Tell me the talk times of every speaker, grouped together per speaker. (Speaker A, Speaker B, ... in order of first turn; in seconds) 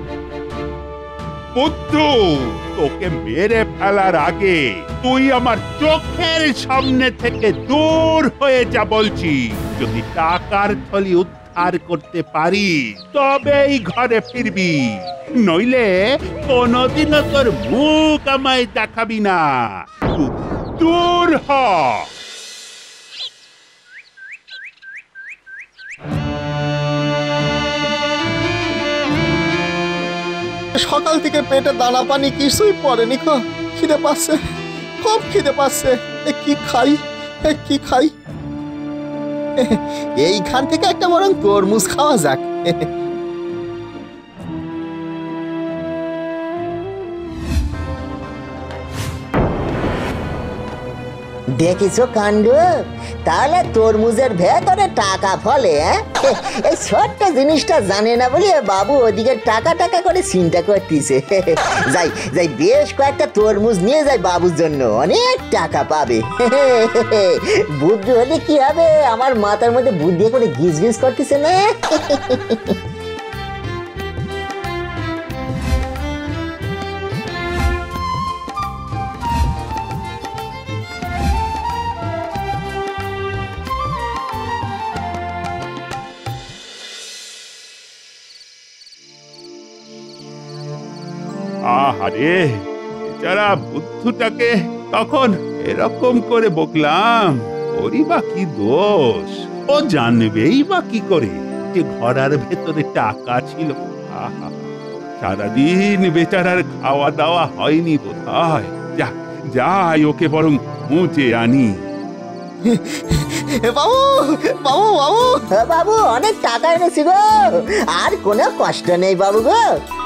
Speaker A: 1.6-22.1, 91.7-111.8
Speaker B: 30.8-34.4, 35.0-38.1, 40.4-41.0, 41.8-42.4, 113.8-114.1, 114.6-115.4
Speaker C: 40.2-41.8, 51.6-52.6, 53.2-72.8, 112.7-113.4, 115.5-119.6